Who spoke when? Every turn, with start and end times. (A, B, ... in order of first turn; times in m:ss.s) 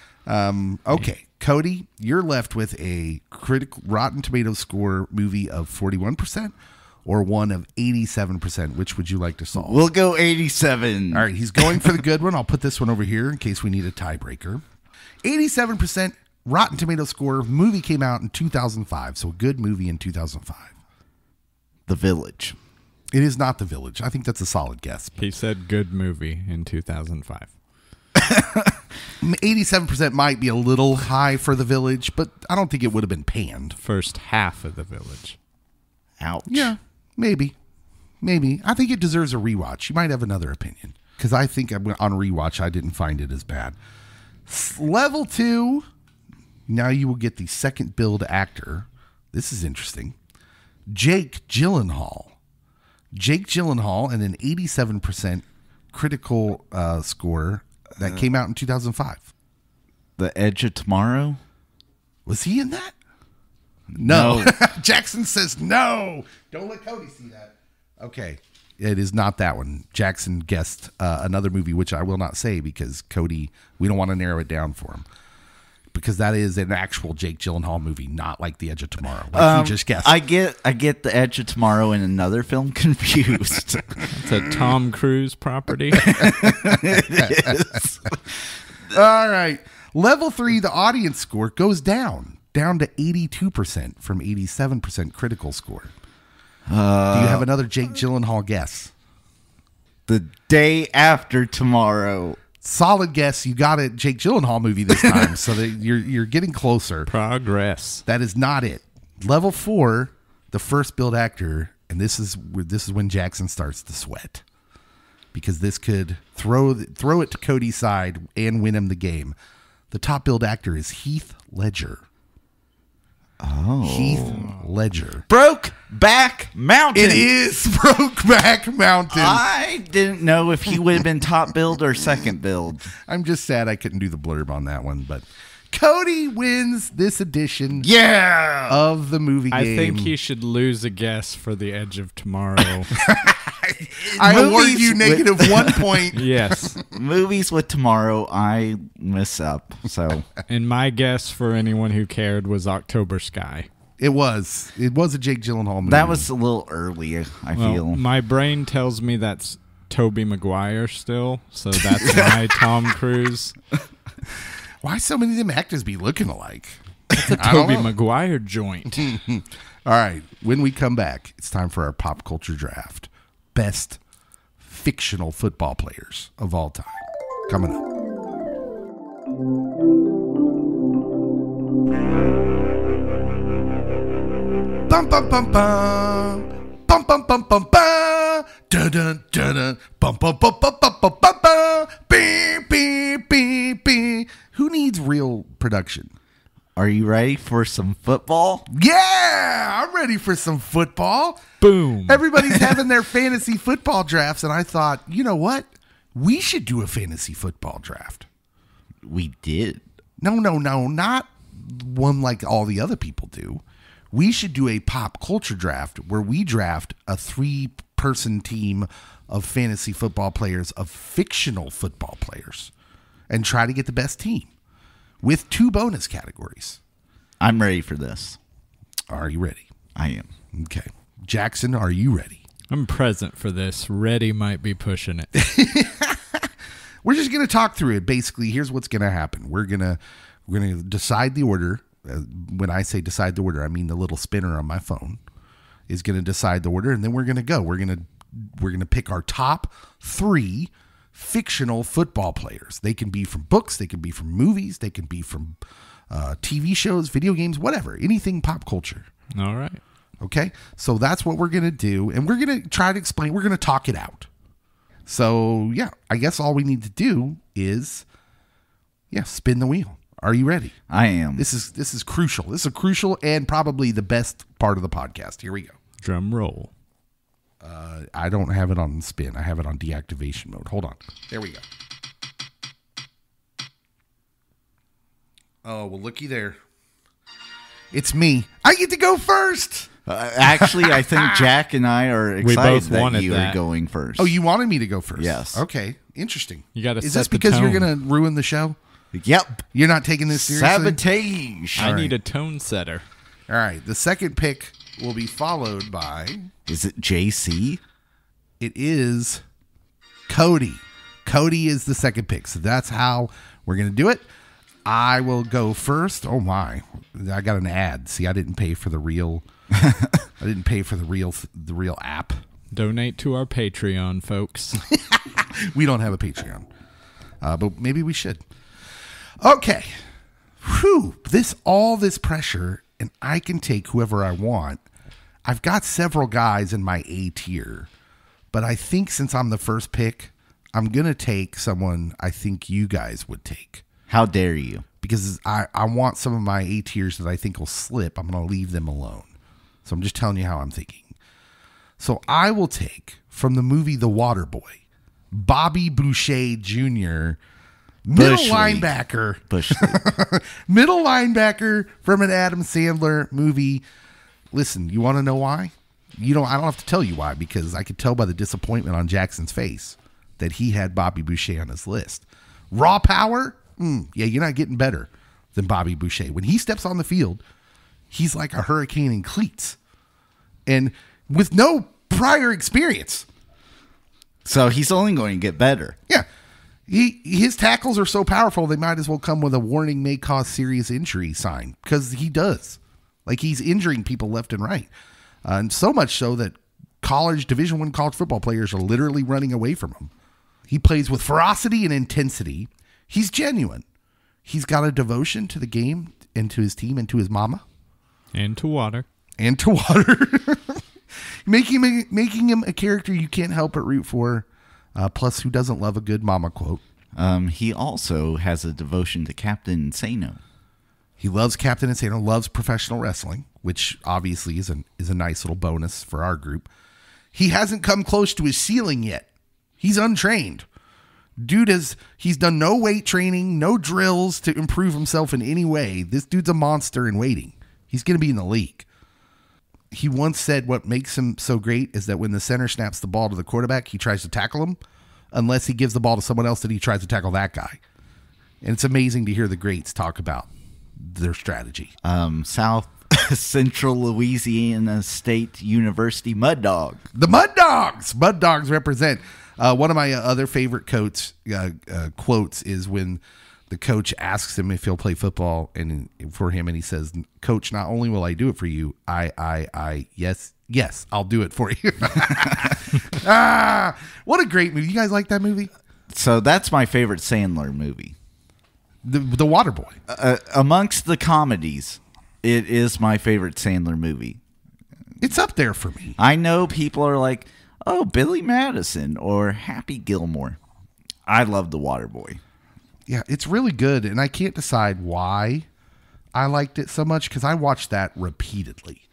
0:00.2-0:06.5 A
0:07.0-0:09.8 A
0:09.5-0:11.3 B
0:11.1-0:14.6 A
0:15.2-0:20.7 A
0:21.9-0:22.6 B
0:23.1-0:25.2 A
0:25.2-0:27.5 C
0:28.2-0:28.8 B
0:29.2-0:33.8 A
0:33.8-0:35.4 C
0:36.2-0:36.7 B
0:36.4-0:37.5 A
0:38.2-0:43.8 A
0:44.5-0:45.8 A
0:46.7-0:50.2 A
0:50.9-0:52.3 A
0:53.1-0:59.3 A
1:00.2-1:01.4 B
1:02.2-1:02.9 A
1:03.9-1:04.5 B
1:04.0-1:15.0 A
1:15.9-1:20.1 A
1:19.3-1:24.0 B
1:24.1-1:26.1 C
1:26.0-1:28.1 B
1:26.0-1:27.8 A
1:28.9-1:35.9 A
1:36.7-1:37.4 B
1:37.1-1:38.9 A
1:40.1-1:42.4 B
1:42.6-1:47.1 A
1:47.1-1:48.0 C
1:48.0-1:54.4 A
1:55.3-1:59.3 A
1:59.9-2:02.0 A
2:03.4-2:04.5 B
2:03.8-2:05.2 A
2:05.3-2:07.3 B
2:06.9-2:09.4 A
2:09.1-2:12.9 B
2:13.0-2:17.9 A
2:17.7-2:18.8 B
2:18.7-2:20.1 A
2:19.5-2:22.9 C
2:22.9-2:26.8 A
2:23.9-2:26.0 B
2:26.1-2:26.8 C
2:26.9-2:30.2 B
2:30.5-2:33.7 C
2:34.0-2:36.3 A
2:35.8-2:38.0 B
2:37.6-2:43.6 C
2:42.0-2:42.4 B
2:44.8-2:47.9 A
2:47.1-2:49.1 C
2:48.9-2:54.0 A
2:54.6-2:57.8 A
3:04.9-3:16.1 A
3:16.8-3:18.7 B
3:18.7-3:21.5 A
3:21.6-3:22.6 C
3:22.0-3:28.2 A
3:29.0-3:29.8 B
3:30.2-3:42.7 A
3:43.3-3:44.5 A
3:45.2-3:46.8 A
3:47.4-3:48.4 B
3:49.1-3:49.6 A
3:49.9-3:50.3 B
3:50.5-3:52.4 A
3:52.7-3:55.3 C
3:55.3-3:56.5 A
3:57.0-4:05.2 A
4:05.9-4:15.6 A
4:16.1-4:19.1 A
4:19.3-4:19.8 C
4:20.2-4:24.3 A
4:25.1-4:28.0 A
4:29.1-4:30.7 A
4:30.9-4:31.4 B
4:31.4-4:35.8 A
4:36.0-4:36.7 C
4:37.6-4:41.6 A
4:45.6-4:46.6 A
4:47.9-4:49.9 A
4:50.0-4:54.4 B
4:50.4-4:51.5 A
4:52.4-4:53.6 C
4:54.2-4:58.8 A
4:55.2-4:55.6 B
4:56.7-4:57.9 C
4:59.1-4:59.6 B
4:59.7-5:01.0 A
5:00.3-5:02.1 B
5:01.8-5:03.0 C
5:03.5-5:06.5 A
5:06.7-5:07.8 B
5:08.6-5:09.4 A
5:10.3-5:14.3 A
5:14.8-5:19.4 A
5:20.4-5:22.4 A
5:22.7-5:24.8 C
5:24.8-5:26.7 A
5:27.4-5:28.4 A
5:29.4-5:30.0 A
5:30.6-5:34.8 A
5:35.4-5:37.9 A
5:38.5-5:43.8 A
5:44.1-5:44.8 B
5:45.0-5:49.3 A
5:49.8-5:51.1 A
5:52.0-5:54.8 A
5:55.3-5:57.4 A
5:58.0-6:03.8 A
5:58.1-5:58.9 B
5:59.5-6:00.0 B
6:04.5-6:17.4 A
6:18.1-6:19.8 A
6:20.6-6:23.3 A
6:24.4-6:26.0 B
6:26.9-6:34.9 A
6:35.4-6:40.1 A
6:40.7-6:43.8 A
6:44.4-6:47.6 A
6:48.3-6:49.0 C
6:49.4-6:50.8 A
6:51.4-6:56.8 A
6:57.1-7:00.4 B
7:01.2-7:06.7 A
7:07.3-7:09.3 A
7:09.8-7:10.6 A
7:11.4-7:18.8 A
7:19.9-7:24.8 A
7:25.3-7:27.8 A
7:28.6-7:31.9 A
7:32.0-7:37.0 B
7:37.1-7:55.7 A
7:56.1-7:58.1 B
7:59.0-8:00.0 A
8:00.1-8:04.4 B
8:05.2-8:06.2 A
8:06.2-8:10.6 B
8:11.2-8:12.4 B
8:13.1-8:15.7 A
8:16.3-8:19.0 A